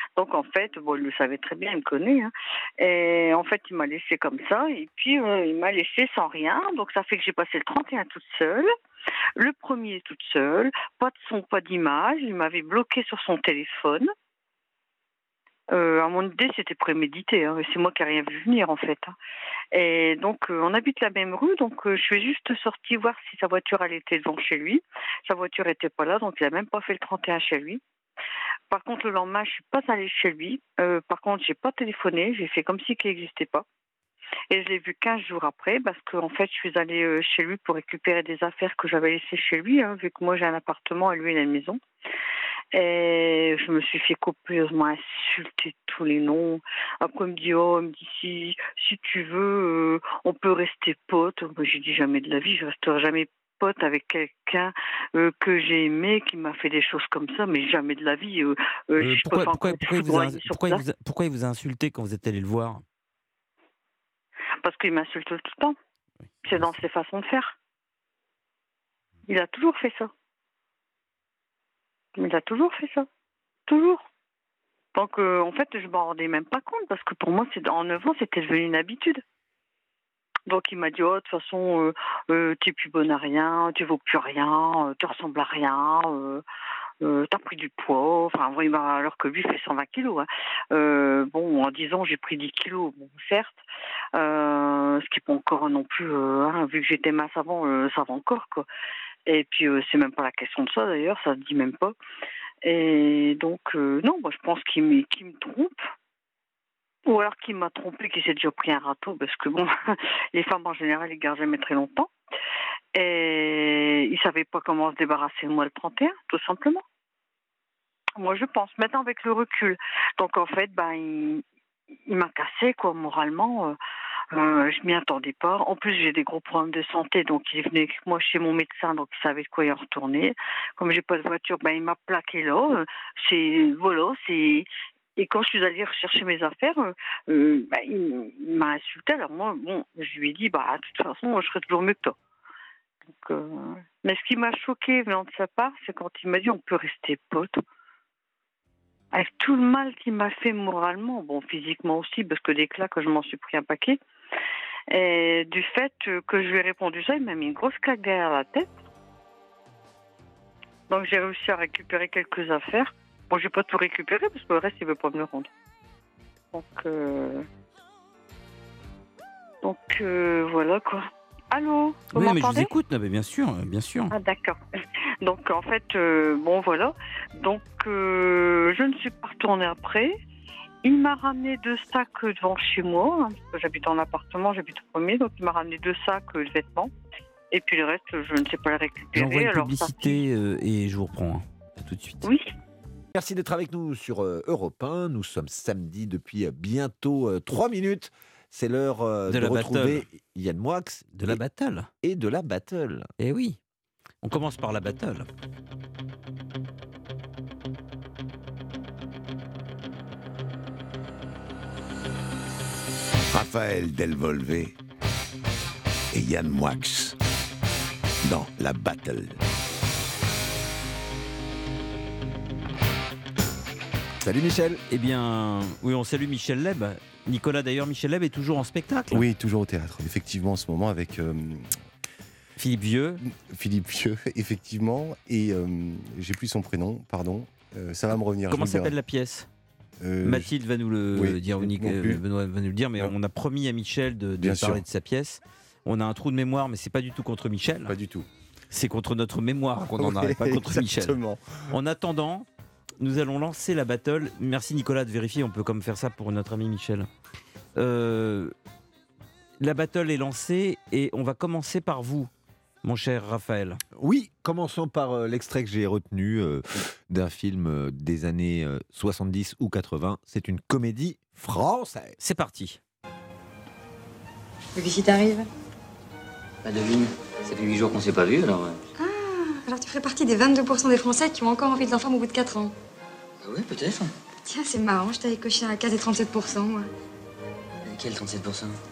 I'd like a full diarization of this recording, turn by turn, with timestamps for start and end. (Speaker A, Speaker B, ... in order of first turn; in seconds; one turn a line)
Speaker A: 0.1-8.7
Speaker A: 9.3-14.1
Speaker A: 15.7-19.1
Speaker A: 19.7-27.8
Speaker A: 28.7-33.6
Speaker A: 34.5-41.8
Speaker A: 42.7-60.8
Speaker B: 59.0-62.8
Speaker A: 64.6-65.8
Speaker A: 66.4-67.5
Speaker A: 69.3-70.1
Speaker A: 72.2-73.1
Speaker A: 73.7-74.0
Speaker A: 74.9-79.2
Speaker A: 80.5-86.4
Speaker A: 87.0-93.6
Speaker A: 94.1-98.7
Speaker A: 99.2-101.9
Speaker A: 102.6-105.8
Speaker A: 107.0-112.1
Speaker A: 112.9-116.8
Speaker A: 118.2-121.4
Speaker A: 122.1-123.8
Speaker A: 124.3-142.1
Speaker A: 143.2-147.6
Speaker A: 149.1-154.0
Speaker A: 154.9-158.7
Speaker A: 160.9-165.5
Speaker A: 166.5-167.4
Speaker A: 169.6-172.7
Speaker B: 172.1-174.1
Speaker A: 174.1-174.6
Speaker A: 175.2-180.2
Speaker A: 180.8-186.9
Speaker A: 187.5-190.2
Speaker B: 189.1-192.3
Speaker A: 192.2-192.5
Speaker C: 193.1-201.4
Speaker B: 199.3-200.0
Speaker B: 201.1-201.9
Speaker C: 202.0-203.1
Speaker B: 203.2-203.6
Speaker B: 204.2-205.3
Speaker D: 213.3-214.8
Speaker D: 216.1-217.2
Speaker D: 218.2-219.4
Speaker C: 224.2-224.8
Speaker B: 224.9-229.2
Speaker E: 229.1-231.8
Speaker B: 232.6-233.2
Speaker E: 233.3-238.9
Speaker B: 238.5-239.5
Speaker E: 240.0-240.5
Speaker B: 240.2-247.9
Speaker E: 241.1-242.2
Speaker E: 244.4-244.8
Speaker E: 247.8-248.3
Speaker B: 248.7-251.2
Speaker E: 250.0-251.6
Speaker B: 251.7-252.5
Speaker B: 253.0-257.1
Speaker B: 257.8-258.5
Speaker B: 259.6-262.3
Speaker B: 262.8-263.8
Speaker C: 263.9-272.1
Speaker B: 272.2-272.8
Speaker F: 274.8-275.5
Speaker G: 276.6-278.8
Speaker F: 279.0-282.7
Speaker G: 283.4-284.1
Speaker F: 284.4-286.9
Speaker G: 287.8-288.8